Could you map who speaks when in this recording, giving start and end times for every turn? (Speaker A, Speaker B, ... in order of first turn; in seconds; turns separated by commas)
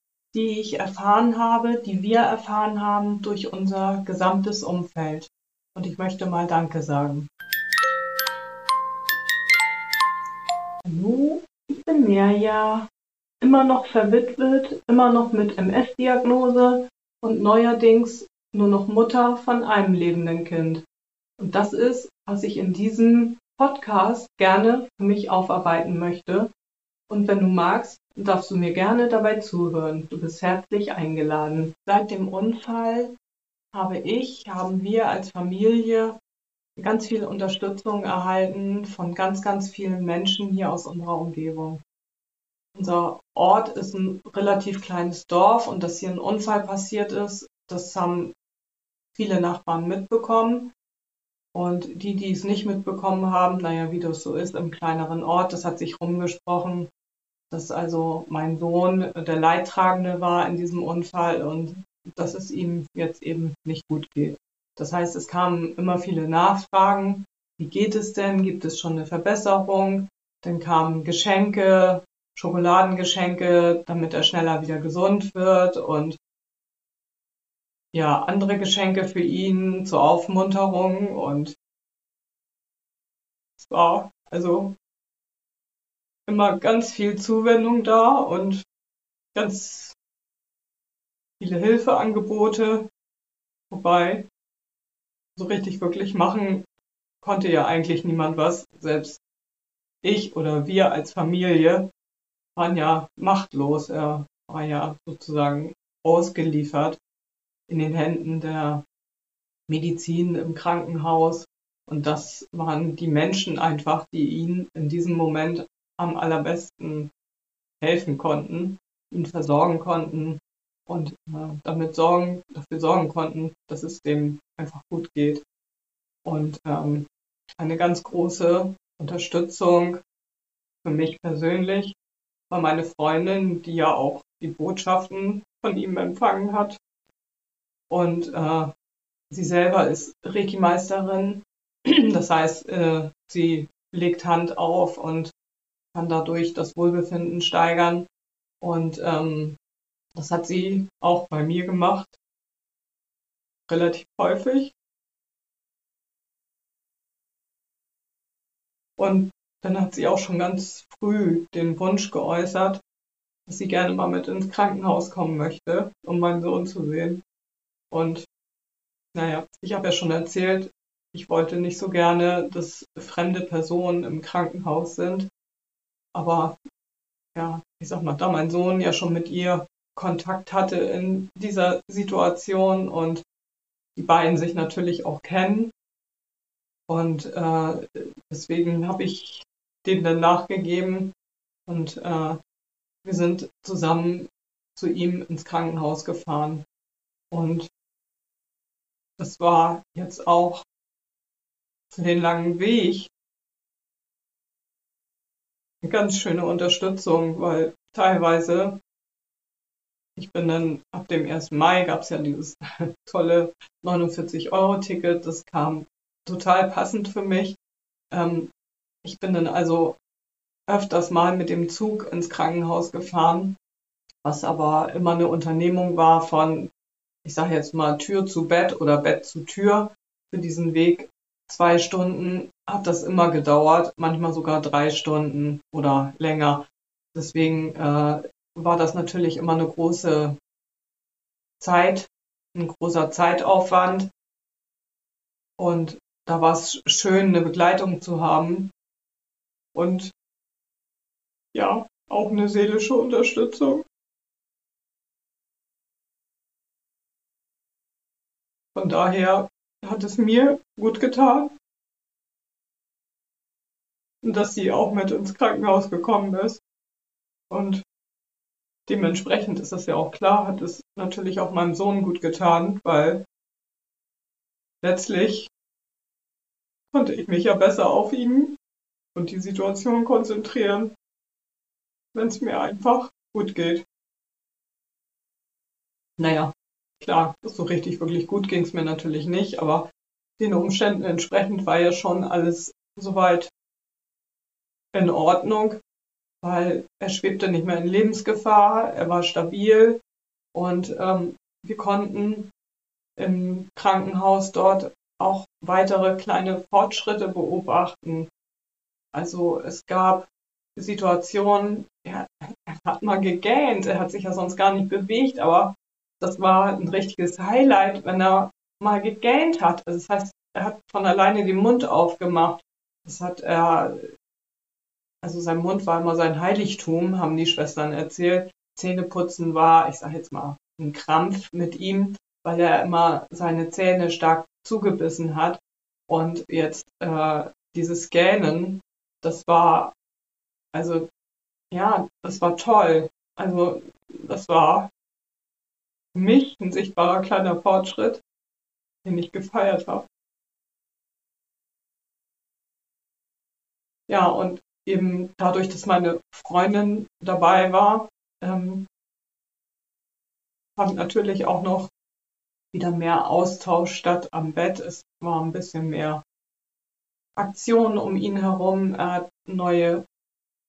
Speaker A: 0.3-7.3, Speaker A: 10.8-12.9, Speaker A: 13.4-20.8, Speaker A: 21.4-26.5, Speaker A: 27.1-33.1, Speaker A: 33.7-36.2, Speaker A: 36.8-41.8, Speaker A: 42.8-48.3, Speaker A: 49.1-50.7, Speaker A: 51.5-56.9, Speaker A: 57.5-76.2, Speaker A: 77.9-81.5, Speaker A: 83.6-84.7, Speaker A: 86.3-88.6, Speaker A: 89.3-90.0, Speaker A: 91.4-92.9, Speaker A: 93.7-94.3, Speaker A: 95.4-96.6, Speaker A: 97.2-99.2, Speaker A: 100.0-101.9, Speaker A: 102.6-107.0, Speaker A: 107.7-108.8, Speaker A: 109.7-117.1, Speaker A: 117.8-125.4, Speaker A: 126.2-130.0, Speaker A: 130.8-131.9, Speaker A: 132.5-136.8, Speaker A: 137.9-138.7, Speaker A: 139.3-145.3, Speaker A: 145.9-148.1, Speaker A: 148.6-149.6, Speaker A: 150.2-152.2, Speaker A: 153.7-154.7, Speaker A: 159.0-162.8, Speaker A: 163.5-167.2, Speaker A: 167.9-168.3, Speaker A: 169.1-175.3, Speaker A: 176.1-176.6, Speaker A: 177.3-183.2, Speaker A: 183.9-185.7, Speaker A: 186.9-191.1, Speaker A: 191.7-192.4, Speaker A: 193.0-196.6, Speaker A: 197.3-197.7, Speaker A: 199.2-200.6, Speaker A: 201.9-203.1, Speaker A: 205.8-208.8, Speaker A: 210.2-217.6, Speaker A: 218.1-218.5, Speaker A: 219.0-220.0, Speaker A: 220.7-223.6, Speaker A: 224.2-226.7, Speaker A: 227.2-240.4, Speaker A: 241.6-244.1, Speaker A: 245.6-248.7, Speaker A: 249.7-250.1, Speaker A: 251.5-253.8, Speaker A: 258.8-261.5, Speaker A: 264.2-266.6, Speaker A: 267.5-267.8, Speaker A: 268.9-273.2, Speaker A: 274.8-275.5, Speaker A: 276.9-278.6, Speaker A: 279.1-280.9, Speaker A: 282.1-283.8, Speaker A: 286.2-289.9, Speaker A: 290.4-293.5, Speaker A: 294.9-295.8, Speaker A: 296.4-300.0, Speaker A: 300.5-302.5, Speaker A: 303.2-308.3, Speaker A: 309.1-324.0, Speaker A: 325.2-339.9, Speaker A: 340.7-341.1, Speaker A: 341.7-344.9, Speaker A: 346.1-348.2, Speaker A: 349.0-350.1, Speaker A: 354.1-358.8, Speaker A: 360.8-361.9, Speaker A: 362.7-366.2, Speaker A: 367.4-370.0